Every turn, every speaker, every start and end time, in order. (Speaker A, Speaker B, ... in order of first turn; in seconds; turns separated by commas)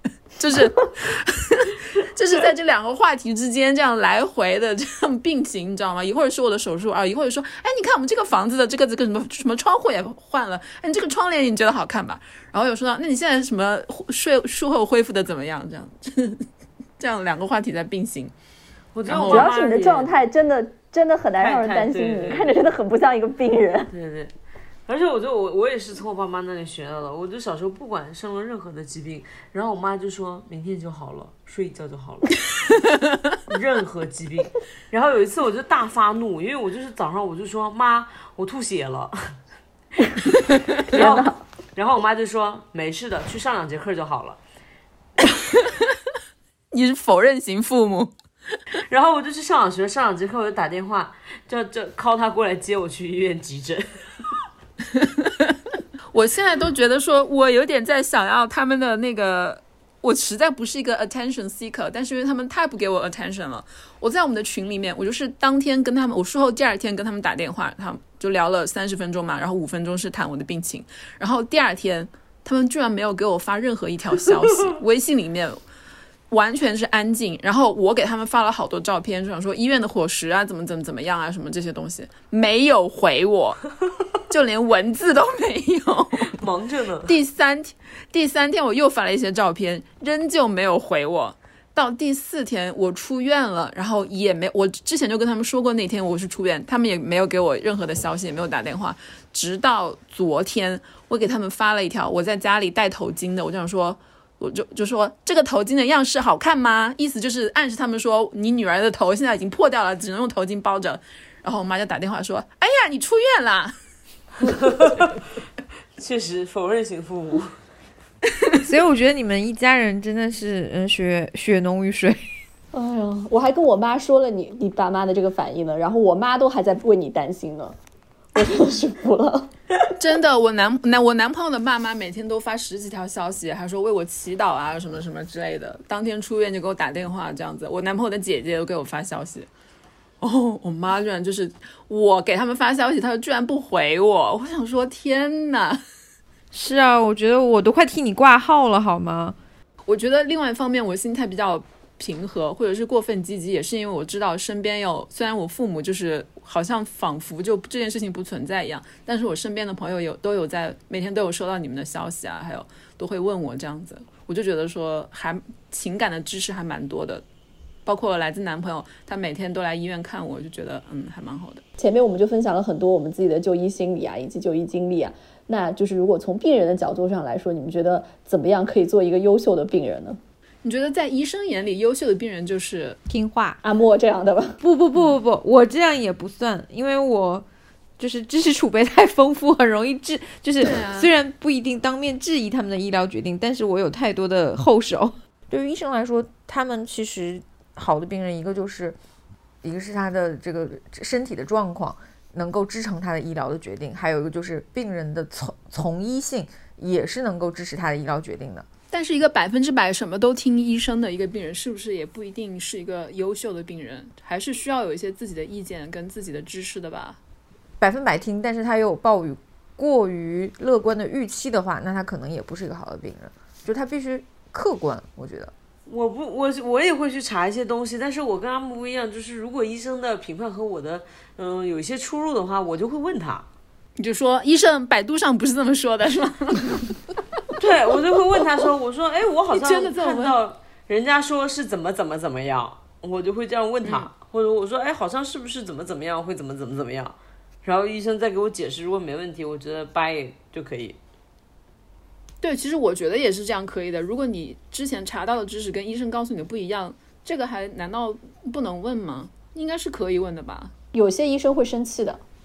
Speaker A: 0.4-16.4, Speaker A: 17.0-18.3, Speaker B: 18.9-20.1, Speaker A: 19.1-19.5, Speaker C: 19.2-23.9, Speaker B: 21.4-22.5, Speaker B: 23.9-24.3, Speaker B: 24.9-32.4, Speaker B: 33.5-39.3, Speaker C: 40.9-41.4, Speaker B: 40.9-44.4, Speaker A: 46.7-48.1, Speaker B: 48.9-53.9, Speaker A: 54.9-55.5, Speaker A: 56.1-75.6, Speaker A: 76.3-83.6, Speaker A: 84.3-86.3, Speaker B: 86.2-87.1, Speaker A: 87.0-113.7, Speaker B: 114.5-115.1, Speaker B: 116.0-117.5, Speaker D: 118.6-122.2, Speaker C: 122.7-127.8, Speaker C: 128.3-129.5, Speaker A: 130.0-139.5, Speaker A: 140.2-145.8, Speaker D: 146.5-149.4, Speaker A: 149.8-167.2, Speaker A: 167.8-171.6, Speaker C: 171.8-180.2, Speaker A: 180.6-183.0, Speaker D: 183.1-183.6, Speaker C: 183.6-184.6, Speaker D: 184.6-187.4, Speaker D: 188.0-198.9, Speaker A: 190.6-191.1, Speaker D: 199.6-208.7, Speaker A: 208.9-217.2, Speaker D: 217.8-225.5, Speaker B: 225.9-233.5, Speaker A: 234.0-236.9, Speaker B: 237.6-251.0, Speaker A: 239.5-240.3, Speaker A: 252.4-260.7, Speaker C: 260.9-262.2